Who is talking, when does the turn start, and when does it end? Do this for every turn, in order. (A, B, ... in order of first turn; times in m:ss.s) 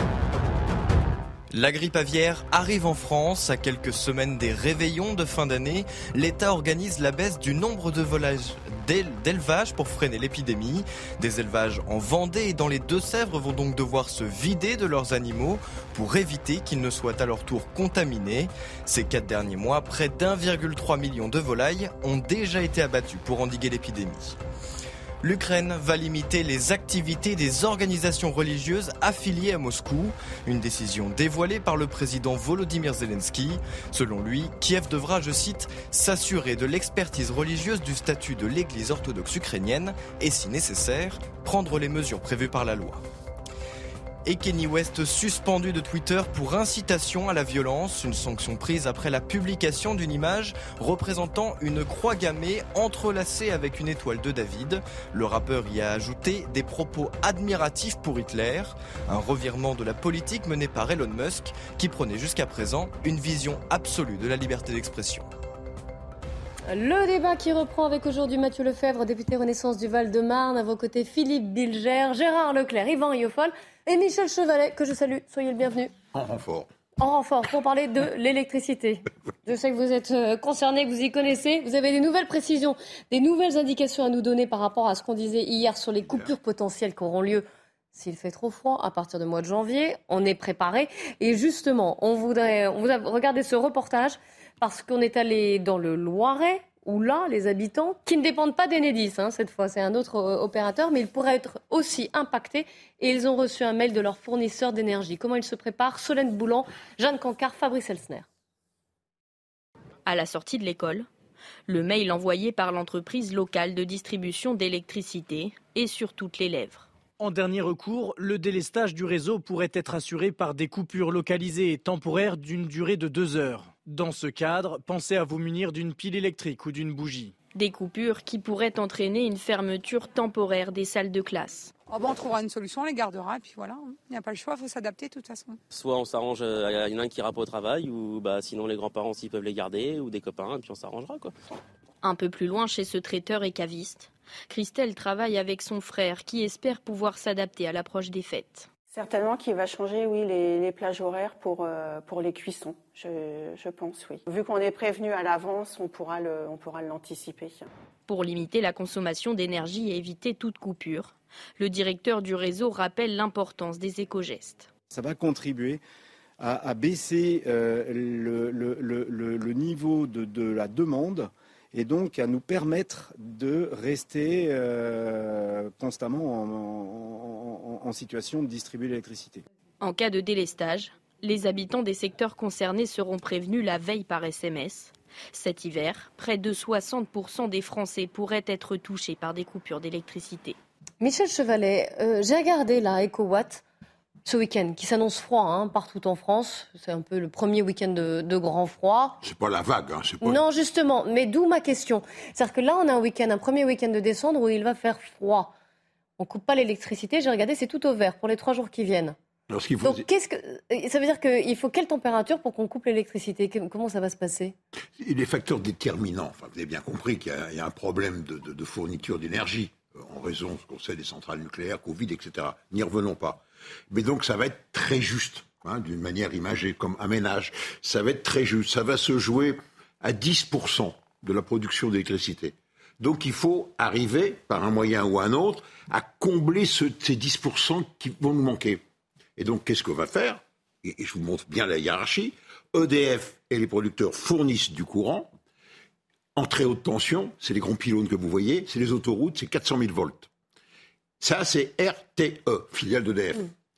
0:01.5-0:24.4 A
0:25.2-0:43.0 A
0:44.2-1:05.2 A
1:06.7-1:15.9 B
1:16.1-1:16.7 C
1:17.0-1:48.3 B
1:50.0-1:51.1 D
1:51.7-1:56.9 D
1:57.2-2:07.3 E
2:07.5-2:11.7 D
2:11.9-2:15.6 F
2:15.7-2:21.3 G
2:22.0-2:28.7 D
2:28.9-2:37.7 H
2:38.1-2:44.7 D
2:44.9-2:45.8 I
2:46.4-2:59.4 I
2:59.8-3:10.6 D
3:11.0-3:13.6 B
3:14.2-3:19.2 B
3:19.2-3:20.4 C
3:20.2-3:25.5 B
3:26.2-3:29.2 B
3:29.5-3:30.0 C
3:29.8-3:34.5 B
3:35.0-3:58.8 C
3:59.4-4:05.3 C
4:06.4-4:10.3 C
4:11.2-4:13.5 C